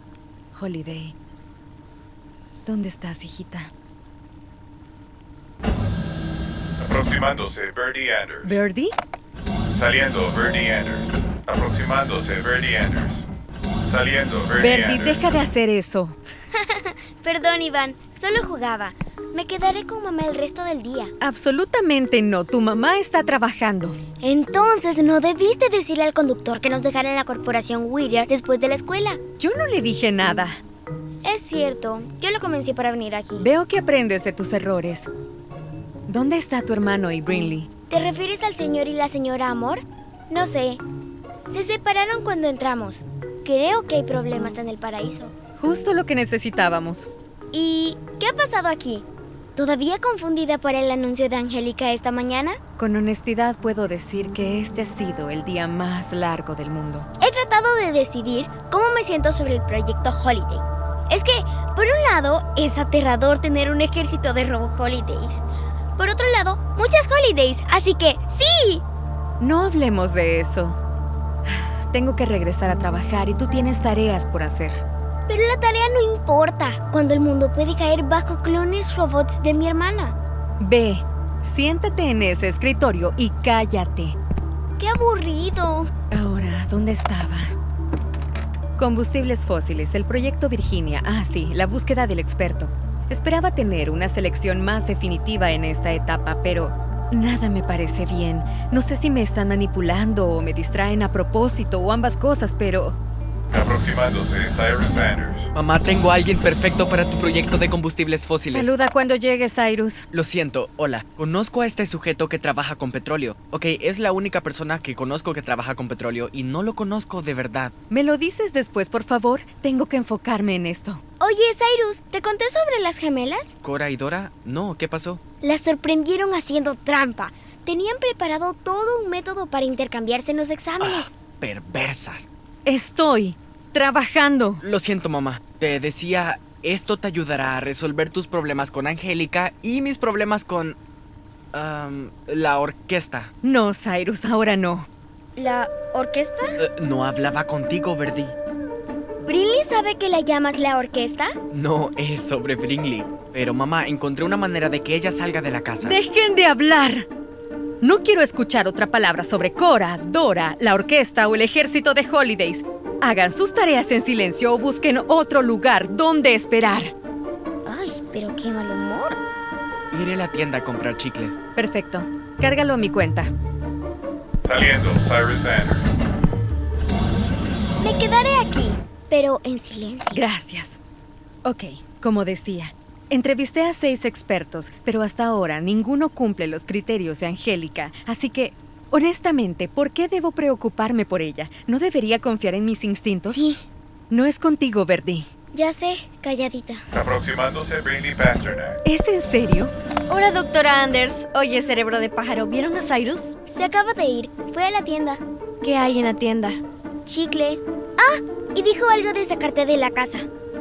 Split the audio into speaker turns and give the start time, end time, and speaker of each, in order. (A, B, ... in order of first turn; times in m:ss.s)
0:00.5-0:01.2 A
0:02.7-0:03.7 A
0:06.8-0:08.6 B
0:08.4-0:09.0 A
0:09.7-0:13.2 B
0:13.9-0:15.3 B
0:14.6-0:16.2 A
0:16.5-0:21.1 C
0:21.2-0:24.0 A
0:24.2-0:29.2 C
0:29.4-0:30.6 A
0:31.2-0:33.5 C
0:33.4-0:35.1 A
0:36.1-0:37.7 A
0:37.9-0:40.8 C
0:41.5-0:45.3 C
0:45.6-0:47.1 A
0:47.5-0:49.0 C
0:49.6-0:52.6 C
0:52.8-0:57.1 A
0:57.2-1:05.4 C
1:06.0-1:08.8 C
1:09.4-1:10.8 A
1:11.5-1:14.8 A
1:15.3-1:20.2 C
1:20.6-1:24.2 A
1:24.8-1:25.9 C
1:26.1-1:27.5 A
1:28.8-1:43.0 A
1:43.5-1:45.5 B
1:45.6-1:48.8 D
1:48.4-1:50.1 A
1:50.1-1:57.7 D
1:57.9-2:01.0 A
2:01.2-2:03.5 C
2:03.6-2:05.2 D
2:05.4-2:11.1 C
2:10.8-2:12.3 D
2:12.7-2:14.6 A
2:14.6-2:20.8 D
2:21.5-2:23.3 D
2:23.4-2:24.9 A
2:25.4-2:26.5 C
2:26.6-2:28.4 D
2:29.2-2:31.3 C
2:31.5-2:36.0 D
2:35.8-2:37.1 A
2:37.8-2:46.9 A
2:47.7-2:49.2 C
2:49.9-2:51.4 D
2:51.6-2:53.3 A
2:54.5-2:55.9 B
2:57.8-3:00.2 C
3:00.1-3:00.8 A
3:01.4-3:13.4 A
3:13.3-3:13.6 C
3:14.1-3:15.3 A
3:15.5-3:16.8 C
3:16.9-3:18.8 B
3:18.8-3:19.7 A
3:20.1-3:23.4 E
3:23.5-3:25.2 C
3:25.6-3:26.6 E
3:27.1-3:30.3 C